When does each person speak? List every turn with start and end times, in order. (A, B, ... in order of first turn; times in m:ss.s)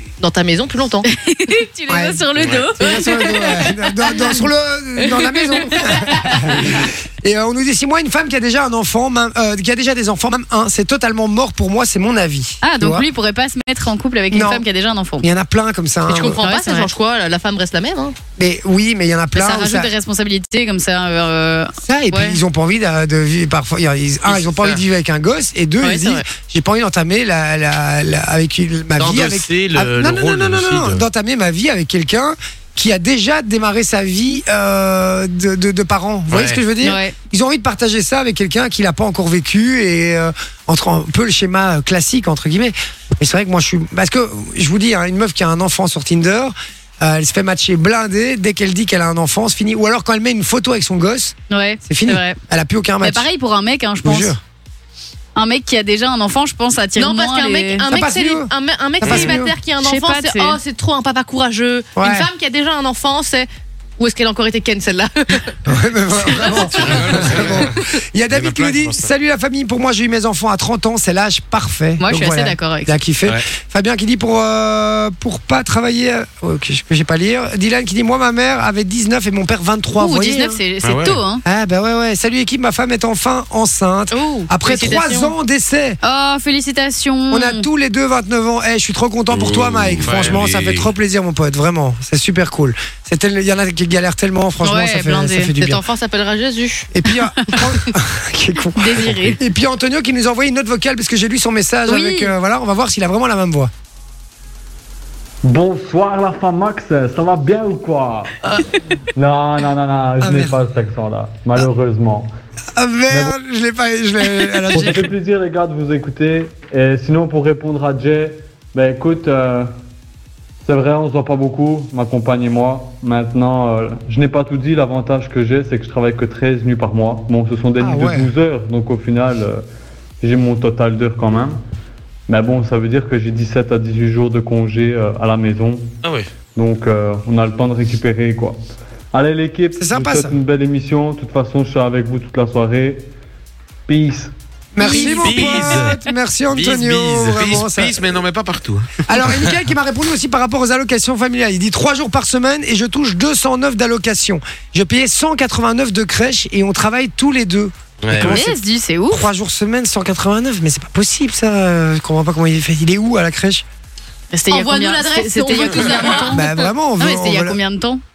0:00.2-0:01.1 A
0:01.1-0:04.4 B
0:01.9-0:13.1 C
0:02.4-0:02.7 D
0:02.8-0:03.7 A
0:05.8-0:06.4 B
0:12.6-0:15.2 B
0:14.3-0:14.6 C
0:15.2-0:16.4 C
0:16.1-0:18.2 A
0:16.4-0:16.9 B
0:18.4-0:19.9 C
0:19.3-0:22.4 B
0:21.8-0:53.3 C
0:25.8-0:26.2 A
0:29.0-0:31.0 E
0:36.3-0:36.6 E
0:36.8-0:37.1 B
0:51.5-0:52.4 B
0:53.0-0:54.4 B
0:54.0-0:54.4 C
0:55.4-0:57.8 B
0:57.0-1:05.6 A
0:57.9-0:58.5 C
0:59.0-0:59.5 C
0:59.1-0:59.3 D
0:59.8-1:00.6 B
1:02.0-1:02.3 C
1:05.6-1:20.6 C
1:06.3-1:07.2 A
1:06.7-1:07.8 D
1:08.3-1:09.1 D
1:12.0-1:12.9 B
1:20.0-1:21.4 B
1:20.8-1:21.2 D
1:21.4-1:26.0 C
1:24.1-1:25.3 A
1:26.0-1:27.6 B
1:27.3-1:35.8 C
1:29.3-1:30.9 D
1:30.0-1:30.4 E
1:34.6-1:35.5 B
1:35.6-1:36.9 A
1:36.9-1:43.7 C
1:38.8-1:39.4 B
1:41.9-1:42.3 B
1:45.4-1:48.4 F
1:49.1-1:52.3 F
1:50.2-1:50.6 C
1:52.8-1:55.1 C
1:53.1-1:53.4 F
1:54.7-1:59.7 F
2:00.6-2:09.6 F
2:07.8-2:08.3 C
2:10.2-2:11.6 F
2:12.3-2:15.9 F
2:16.0-2:16.3 E
2:16.5-2:18.6 F
2:19.1-2:23.0 F
2:19.8-2:20.4 C
2:23.9-2:24.3 F
2:24.7-2:28.0 C
2:24.8-2:26.0 B
2:25.0-2:25.9 E
2:26.5-2:27.6 E
2:27.4-2:28.9 D
2:29.1-2:38.6 C
2:38.0-2:38.4 E
2:38.2-2:39.2 B
2:39.1-2:43.6 C
2:44.3-2:48.0 B
2:44.5-2:46.4 A
2:46.3-2:47.6 C